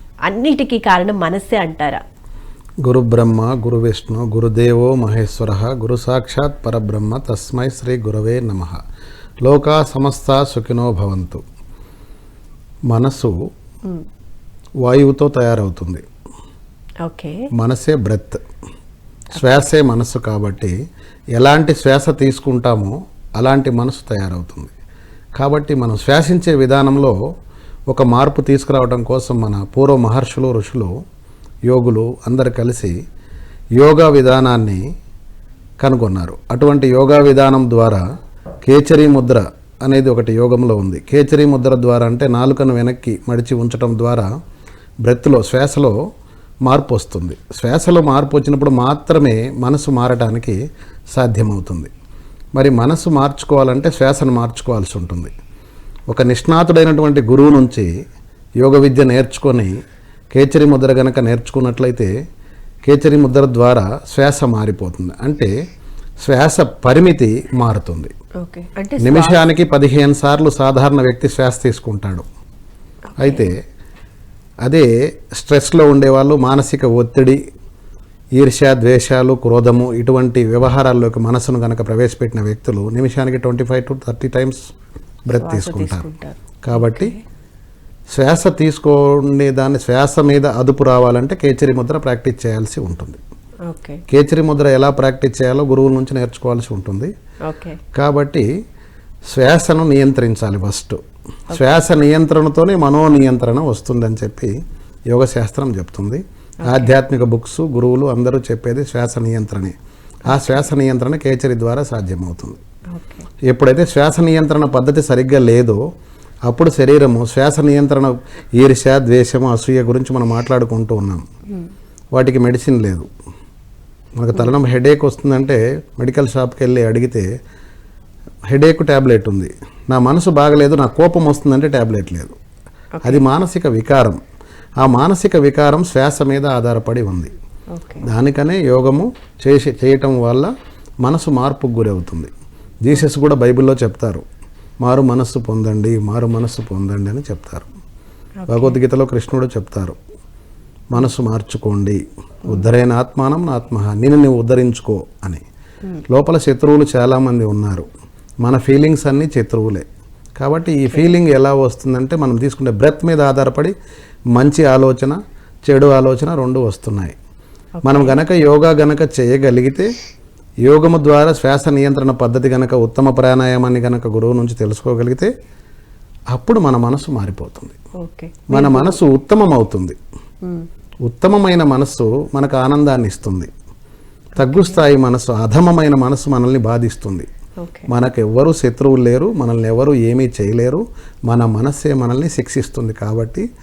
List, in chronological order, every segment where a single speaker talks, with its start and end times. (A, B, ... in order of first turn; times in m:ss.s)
0:00.3-0:02.0 A
0:02.8-0:08.8 B
0:09.4-0:11.4 B
0:12.9-0:13.3 B
0:14.8-0:16.0 B
0:17.0-0:17.4 A
0:17.5-0:18.4 B
0:19.4-0:20.8 B
0:21.4-0:24.7 B
0:25.4-0:27.2 B
0:27.9-0:30.9 B
0:31.7-0:33.0 B
0:33.8-0:34.8 B
0:35.8-0:38.0 B
0:38.6-0:44.3 B
0:45.0-0:46.0 B
0:46.7-0:50.6 B
0:51.2-0:51.9 B
0:52.6-0:55.3 B
0:56.1-0:57.9 B
0:58.6-0:59.7 B
1:00.3-1:02.1 B
1:02.9-1:05.5 B
1:06.2-1:08.1 B
1:08.4-1:09.5 A
1:09.0-1:12.3 B
1:13.1-1:13.5 A
1:13.2-1:13.6 B
1:14.7-1:17.4 B
1:18.4-1:24.6 B
1:25.3-1:26.0 B
1:25.4-1:27.2 A
1:26.6-1:27.1 B
1:28.1-1:33.2 B
1:33.7-1:34.0 A
1:34.1-1:37.1 B
1:37.4-1:37.8 A
1:38.0-1:38.5 B
1:39.3-1:41.0 B
1:41.5-1:41.8 A
1:41.5-1:44.5 B
1:45.1-1:49.8 B
1:46.6-1:46.9 A
1:50.3-1:52.6 B
1:50.3-1:50.7 A
1:52.9-1:53.3 A
1:53.5-1:55.8 B
1:56.5-2:01.2 B
2:02.1-2:03.1 B
2:04.2-2:07.3 B
2:08.5-2:12.4 B
2:13.0-2:14.2 B
2:14.8-2:17.3 B
2:17.7-2:18.0 A
2:18.0-2:20.5 B
2:21.0-2:22.3 B
2:22.8-2:24.2 B
2:24.8-2:27.7 B
2:28.4-2:28.8 A
2:28.5-2:30.0 B
2:30.9-2:35.4 B
2:36.1-2:37.9 B
2:38.4-2:39.9 B
2:40.4-2:43.7 B
2:44.4-2:47.2 B
2:47.8-2:48.2 A
2:47.8-2:49.9 B
2:50.7-2:55.3 B
2:56.3-2:57.8 B
2:58.0-2:59.0 A
2:58.5-3:00.0 B
3:01.0-3:03.5 B
3:04.4-3:04.8 A
3:04.4-3:07.3 B
3:07.6-3:07.9 A
3:07.9-3:13.5 B